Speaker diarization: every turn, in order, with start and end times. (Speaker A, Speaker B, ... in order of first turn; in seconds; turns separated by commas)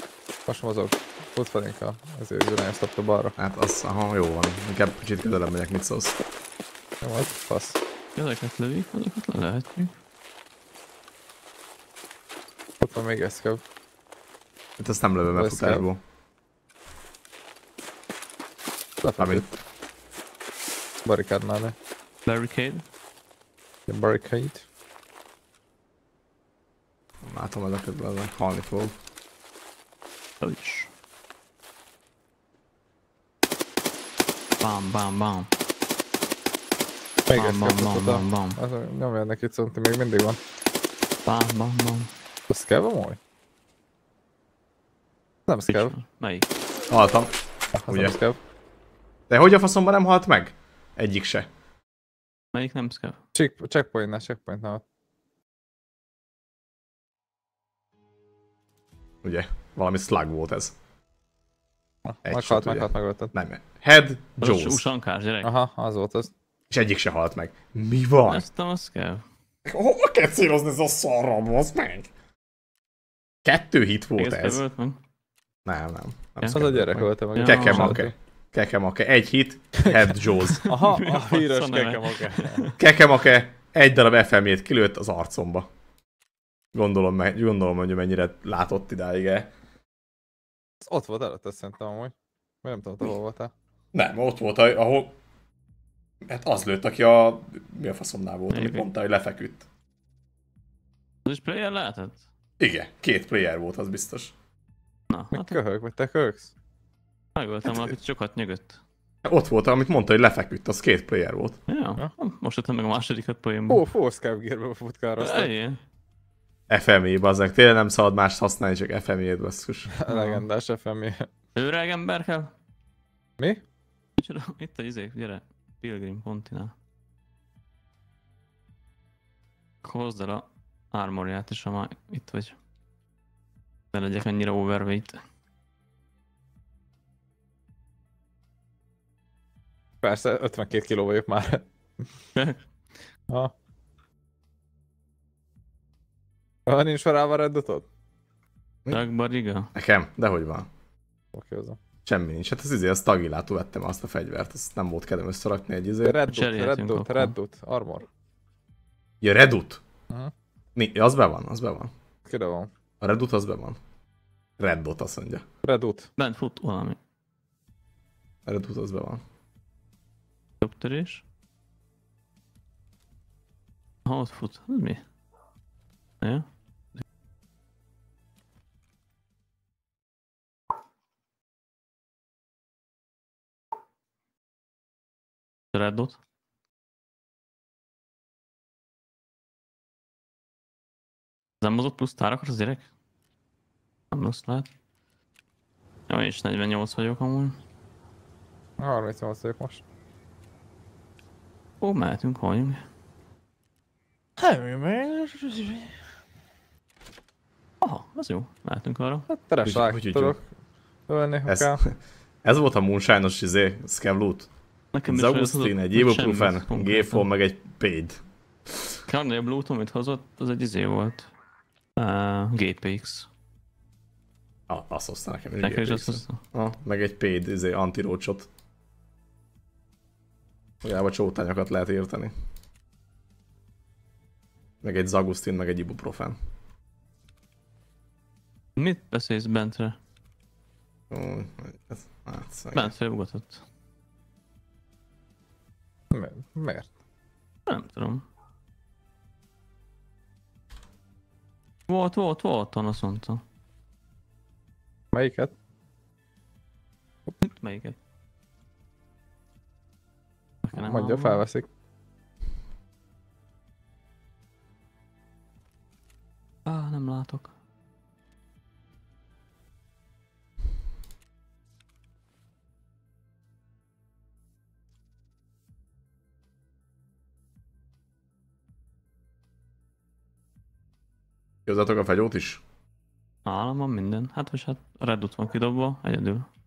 Speaker A: 0.5-3.3, Speaker B: 3.4-6.2, Speaker A: 7.0-7.8, Speaker C: 8.2-9.9, Speaker A: 12.8-13.6, Speaker B: 14.8-16.0, Speaker A: 15.3-15.8, Speaker A: 19.0-19.5, Speaker B: 19.2-19.5, Speaker A: 21.0-21.7, Speaker C: 22.2-22.8, Speaker A: 23.9-24.6, Speaker B: 27.2-28.9, Speaker C: 30.4-30.9, Speaker C: 34.6-35.5, Speaker A: 37.3-40.4, Speaker C: 37.3-38.6, Speaker C: 41.2-42.1, Speaker A: 42.5-43.2, Speaker A: 45.5-45.9, Speaker C: 45.7-46.5, Speaker B: 46.9-47.3, Speaker A: 47.7-48.4, Speaker B: 47.9-48.1, Speaker B: 49.3-51.5, Speaker C: 52.5-53.2, Speaker A: 53.3-54.8, Speaker B: 59.2-60.8, Speaker A: 62.0-63.3, Speaker B: 62.2-64.8, Speaker C: 64.4-65.5, Speaker A: 65.4-66.3, Speaker B: 66.7-68.4, Speaker C: 68.2-69.2, Speaker B: 69.7-72.1, Speaker B: 73.4-74.6, Speaker C: 74.2-75.0, Speaker B: 75.7-80.7, Speaker A: 76.5-78.1, Speaker C: 77.3-78.0, Speaker C: 80.5-82.8, Speaker A: 80.6-82.6, Speaker B: 82.8-85.7, Speaker B: 86.7-89.5, Speaker A: 90.8-93.5, Speaker B: 93.9-95.2, Speaker B: 96.3-99.7, Speaker C: 98.5-98.8, Speaker C: 101.2-102.2, Speaker B: 102.6-104.3, Speaker C: 105.1-105.6, Speaker A: 105.3-106.5, Speaker C: 107.3-108.8, Speaker B: 109.2-111.6, Speaker C: 111.7-113.8, Speaker A: 113.7-115.5, Speaker C: 115.2-115.8, Speaker B: 116.7-119.9, Speaker A: 119.9-121.3, Speaker C: 120.1-120.4, Speaker C: 121.5-122.5, Speaker C: 124.2-126.7, Speaker C: 129.8-132.6, Speaker C: 133.9-135.2, Speaker A: 140.0-141.7, Speaker C: 142.3-142.6, Speaker A: 146.7-147.9, Speaker C: 148.9-149.7, Speaker B: 149.7-150.7, Speaker A: 151.3-151.8, Speaker B: 152.0-156.2, Speaker A: 156.0-158.1, Speaker C: 156.3-157.3, Speaker B: 159.2-159.8, Speaker B: 160.8-161.9, Speaker A: 162.2-162.7, Speaker B: 163.0-163.8, Speaker B: 164.6-165.4, Speaker A: 165.6-166.1, Speaker C: 166.2-167.0, Speaker B: 168.4-169.2, Speaker C: 170.6-171.2, Speaker C: 174.0-175.0, Speaker C: 176.2-176.5, Speaker C: 185.7-186.2, Speaker C: 191.6-192.8, Speaker C: 194.1-194.7, Speaker C: 196.1-197.6, Speaker A: 198.8-199.8, Speaker C: 201.8-202.8, Speaker A: 204.4-206.0, Speaker C: 207.8-209.2, Speaker A: 209.3-210.4, Speaker B: 209.6-210.4, Speaker A: 211.1-211.8, Speaker B: 211.5-214.5, Speaker C: 214.9-217.2, Speaker B: 215.1-218.2, Speaker C: 219.1-221.3, Speaker C: 222.0-223.3, Speaker B: 224.7-228.5, Speaker C: 225.6-226.4, Speaker B: 230.8-232.3, Speaker B: 234.8-236.4, Speaker C: 238.8-240.0, Speaker B: 241.1-242.9, Speaker C: 242.7-243.6, Speaker A: 246.1-246.9, Speaker C: 247.7-248.2, Speaker C: 251.9-253.4, Speaker A: 255.1-255.5, Speaker C: 257.4-257.9, Speaker C: 260.6-261.4, Speaker A: 260.7-261.7, Speaker C: 266.6-267.5, Speaker B: 281.6-282.6, Speaker C: 283.4-286.5